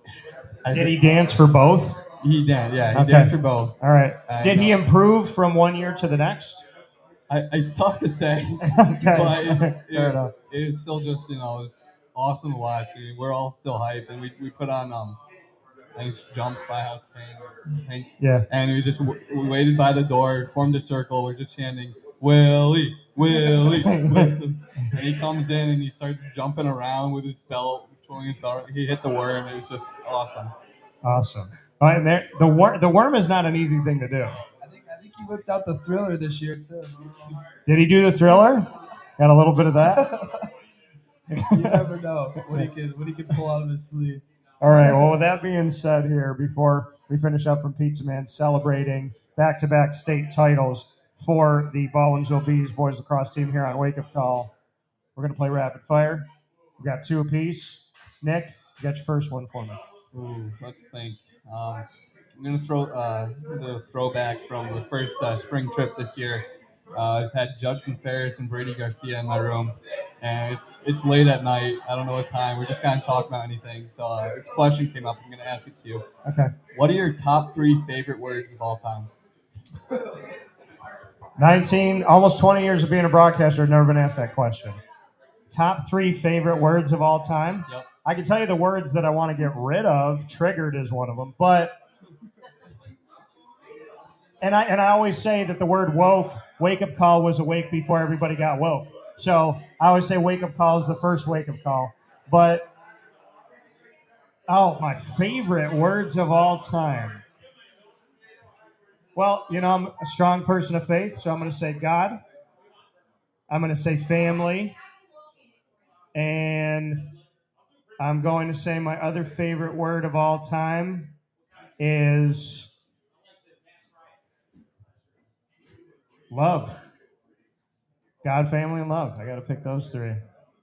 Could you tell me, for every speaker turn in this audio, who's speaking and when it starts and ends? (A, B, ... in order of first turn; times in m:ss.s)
0:00.6-0:01.0 A
0:00.7-0:02.0 B
0:02.2-0:04.8 A
0:02.9-0:06.6 B
0:07.3-0:15.2 A
0:08.6-0:10.3 B
0:16.0-0:30.5 A
0:18.2-0:18.5 B
0:23.6-0:24.4 B
0:31.0-0:34.4 B
0:34.6-0:37.4 C
0:37.6-0:40.2 B
0:40.1-0:40.4 C
0:41.3-0:41.8 B
0:41.5-0:44.2 C
0:44.6-0:54.5 B
0:55.2-0:56.3 B
0:56.8-0:59.8 B
1:00.1-1:16.0 A
1:16.2-1:16.5 B
1:16.7-1:19.1 A
1:21.4-1:24.8 B
1:25.5-1:31.7 B
1:34.4-1:42.6 B
1:44.5-1:47.2 B
1:49.1-1:52.2 B
1:53.5-1:54.8 B
1:56.1-1:57.1 B
1:58.0-2:01.1 B
2:01.8-2:02.7 B
2:06.3-2:06.8 B
2:08.2-2:10.2 B